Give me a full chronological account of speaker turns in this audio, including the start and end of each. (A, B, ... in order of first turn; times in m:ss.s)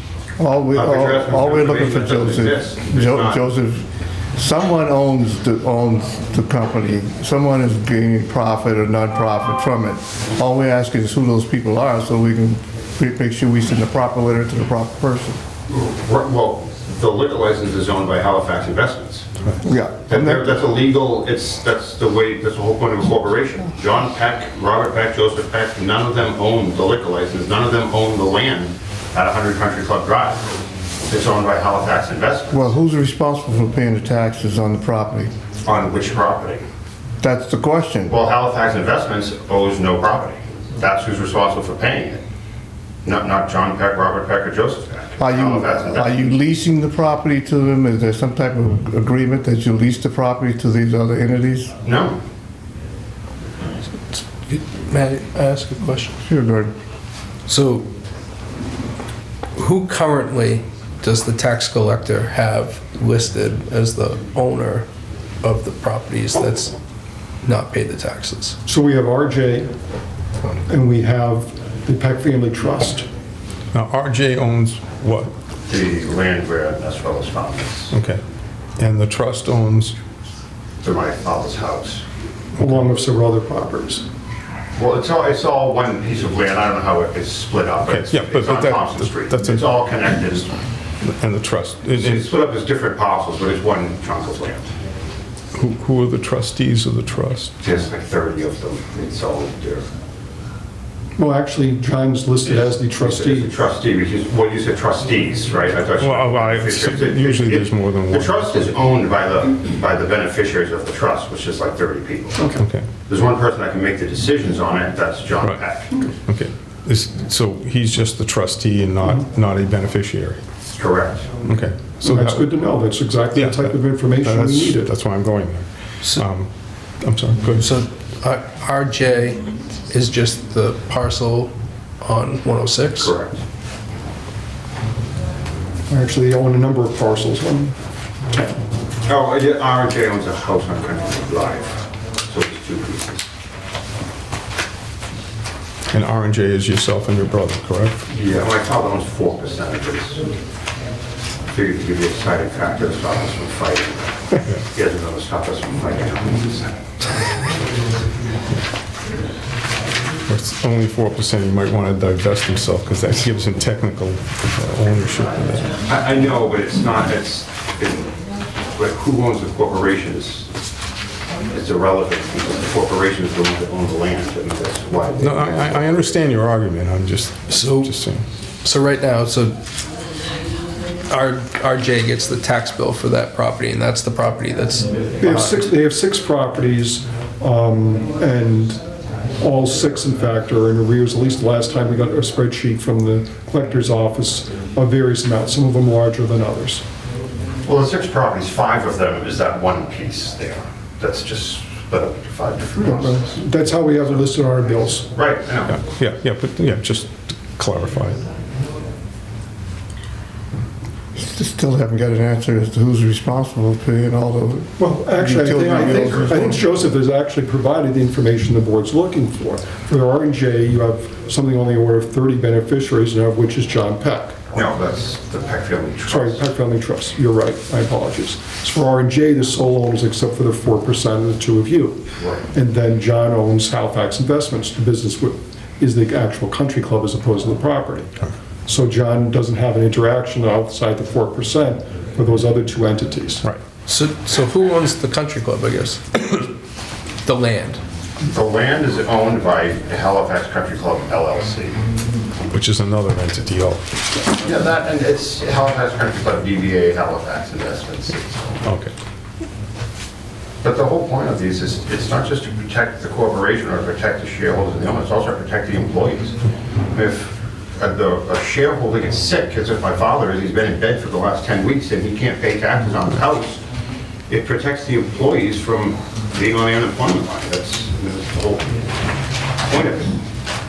0:00.4-0:03.8 A
0:00.8-0:03.4 B
0:04.4-0:15.4 A
0:15.7-0:19.3 B
0:19.6-0:20.5 A
0:20.1-0:30.5 B
0:31.1-0:32.7 B
0:32.5-0:35.3 A
0:35.6-0:36.6 B
0:37.2-0:38.2 A
0:38.1-0:42.2 B
0:43.0-0:46.2 B
0:45.2-0:51.7 A
0:51.8-0:52.2 B
0:54.1-0:56.2 C
0:56.2-0:56.7 A
0:57.5-0:57.9 C
0:59.6-1:04.9 C
1:05.4-1:06.7 C
1:07.4-1:08.6 C
1:08.7-1:09.7 D
1:10.7-1:13.1 D
1:13.7-1:15.3 E
1:15.7-1:17.9 B
1:17.9-1:18.2 E
1:18.8-1:20.0 E
1:20.8-1:22.0 B
1:22.6-1:24.0 D
1:24.8-1:30.5 B
1:27.9-1:29.7 E
1:31.0-1:32.3 E
1:32.0-1:34.7 B
1:35.5-1:37.5 E
1:37.6-1:39.9 B
1:41.2-1:43.5 D
1:42.5-1:52.5 B
1:46.0-1:48.8 E
1:52.4-1:52.6 D
1:52.6-1:52.9 E
1:53.1-1:56.0 B
1:56.3-2:00.4 E
2:00.7-2:01.4 B
2:01.4-2:02.5 E
2:02.0-2:04.9 D
2:03.3-2:07.7 E
2:07.6-2:13.1 C
2:13.0-2:13.4 B
2:15.9-2:17.8 D
2:19.1-2:23.3 B
2:25.9-2:28.0 E
2:28.1-2:30.3 B
2:31.5-2:37.4 B
2:40.3-2:45.8 E
2:45.8-2:48.2 B
2:48.7-2:50.5 B
2:51.5-2:56.2 B
2:55.2-2:58.2 E
2:57.5-2:57.9 C
2:58.6-2:59.6 C
3:01.1-3:05.7 C
3:05.2-3:08.8 D
3:09.4-3:16.8 D
3:17.6-3:23.4 B
3:22.8-3:25.1 D
3:25.1-3:25.8 B
3:25.7-3:28.2 E
3:31.2-3:36.6 A
3:34.8-3:44.5 D
3:44.5-3:46.4 B
3:46.1-3:58.1 D
3:52.2-3:52.4 B
3:58.7-4:03.4 D
4:03.9-4:06.5 C
4:07.2-4:07.8 C
4:08.2-4:11.8 B
4:12.5-4:14.2 E
4:14.4-4:18.6 B
4:18.6-4:18.9 E
4:20.6-4:33.6 B
4:34.3-4:38.8 B
4:39.7-4:40.2 B